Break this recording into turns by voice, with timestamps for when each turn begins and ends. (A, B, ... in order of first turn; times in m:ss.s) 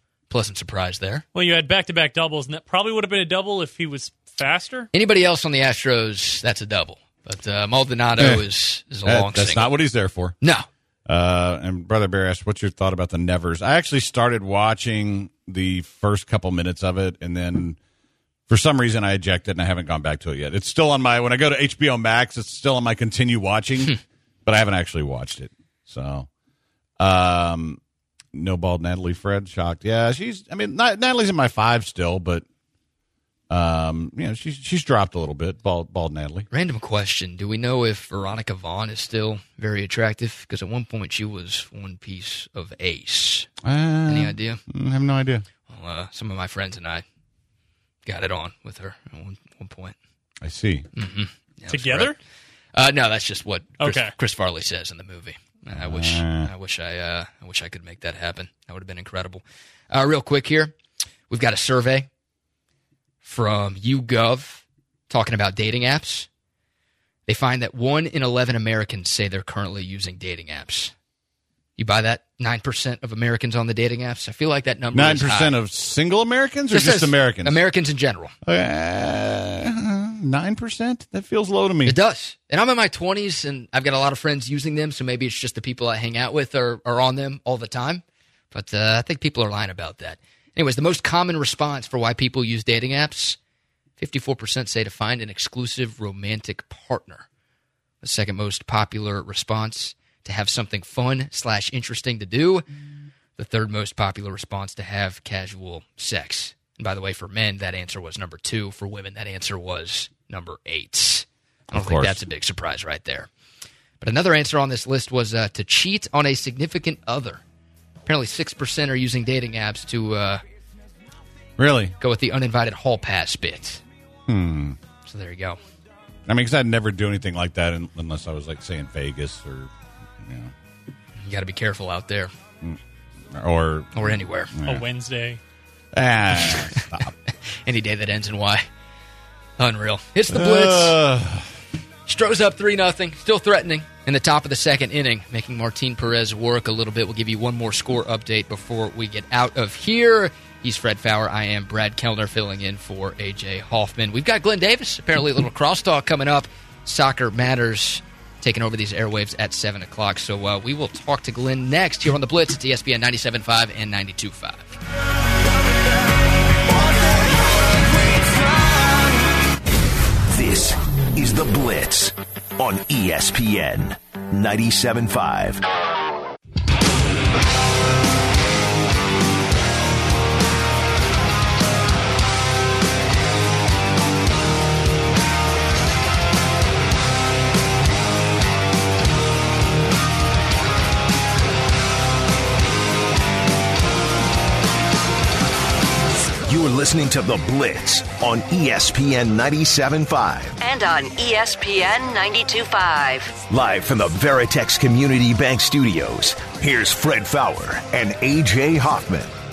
0:00.3-0:01.2 A
0:01.3-0:04.9 B
0:04.9-0:09.7 A
0:08.2-0:08.4 C
0:09.0-0:10.4 C
0:10.4-0:10.7 A
0:11.0-0:17.8 C
0:18.5-0:26.3 C
0:27.0-0:27.8 C
0:28.3-0:32.4 C
0:33.5-0:36.5 C
0:36.5-0:43.5 A
0:43.6-0:45.4 C
0:44.1-0:44.6 A
0:45.7-0:47.0 A
0:48.0-0:49.9 A
0:50.4-0:50.9 C
0:51.0-0:52.1 A
0:51.7-0:52.1 B
0:52.7-1:00.7 A
0:53.8-0:54.1 B
0:55.7-0:56.5 C
1:01.3-1:02.1 A
1:03.2-1:06.3 A
1:07.3-1:10.9 A
1:11.8-1:15.5 A
1:14.9-1:17.6 C
1:16.7-1:18.3 A
1:18.4-1:22.0 C
1:21.8-1:33.4 A
1:34.0-1:37.2 A
1:38.0-1:42.6 A
1:43.4-1:53.3 A
1:51.7-1:52.2 C
1:54.0-1:57.4 A
1:58.0-2:00.4 A
2:01.6-2:02.0 C
2:02.0-2:03.8 A
2:04.3-2:04.8 C
2:05.0-2:05.6 A
2:06.3-2:10.5 C
2:11.2-2:12.3 A
2:13.3-2:14.8 C
2:13.9-2:14.5 A
2:14.6-2:15.4 B
2:15.9-2:17.1 C
2:16.5-2:16.8 A
2:17.6-2:18.6 A
2:19.6-2:21.0 A
2:20.3-2:21.5 C
2:22.1-2:44.8 A
2:50.3-2:55.6 D
3:16.4-3:20.6 D
3:20.6-3:23.4 E
3:23.5-3:29.3 D